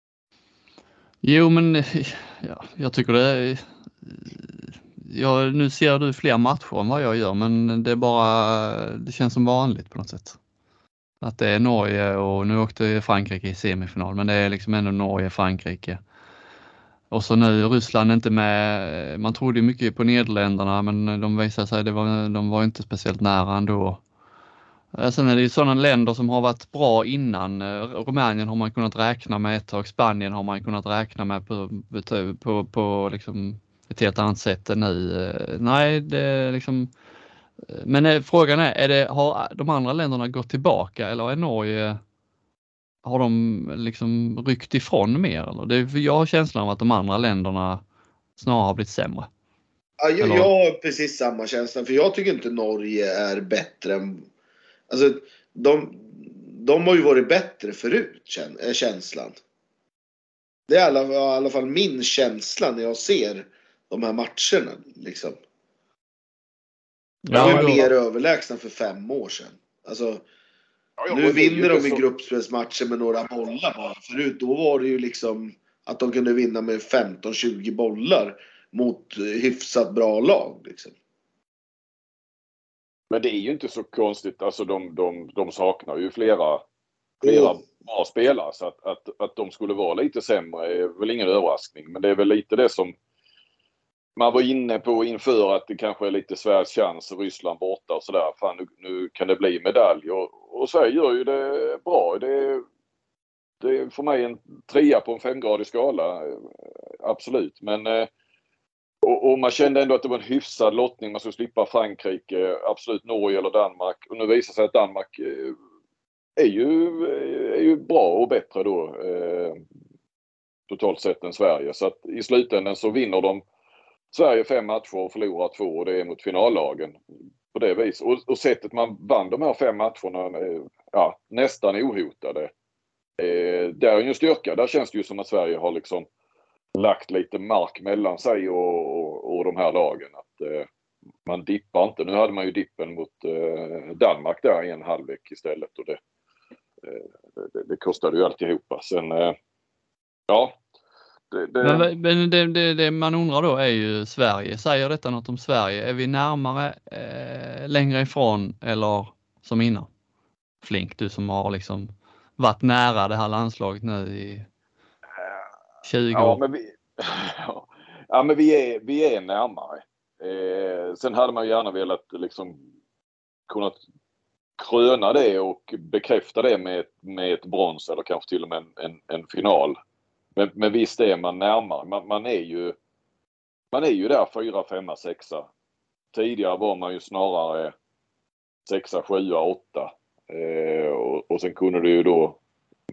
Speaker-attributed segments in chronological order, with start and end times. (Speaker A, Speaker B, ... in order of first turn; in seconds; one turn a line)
Speaker A: 1.2-10.4
Speaker A: 11.2-16.0
Speaker A: 17.1-24.0
Speaker A: 24.9-36.9
Speaker A: 37.7-42.0
Speaker A: 43.0-47.8
Speaker A: 48.4-49.3
Speaker B: 50.0-54.3
Speaker A: 50.2-50.5
Speaker B: 54.9-59.4
Speaker B: 60.7-65.4
Speaker A: 67.3-67.9
Speaker B: 67.3-70.2
Speaker C: 71.0-72.0
Speaker B: 71.1-80.9
Speaker C: 83.1-86.6
Speaker C: 87.2-92.9
Speaker B: 87.2-87.6
Speaker C: 94.2-102.6
Speaker C: 103.6-108.1
Speaker C: 109.0-115.5
Speaker C: 116.4-119.6
Speaker C: 120.7-123.4
Speaker C: 124.1-127.0
Speaker C: 127.5-132.5
Speaker C: 133.2-136.1
Speaker C: 136.8-140.7
Speaker C: 141.3-146.0
Speaker C: 146.8-149.3
Speaker C: 150.3-150.6
Speaker C: 151.3-151.9
Speaker A: 151.6-159.9
Speaker A: 160.6-164.5
Speaker C: 165.2-165.5
Speaker A: 165.8-166.4
Speaker C: 166.1-172.6
Speaker C: 173.5-173.8
Speaker C: 174.6-179.8
Speaker C: 180.4-182.8
Speaker C: 183.7-185.5
Speaker C: 186.1-187.7
Speaker C: 188.7-192.4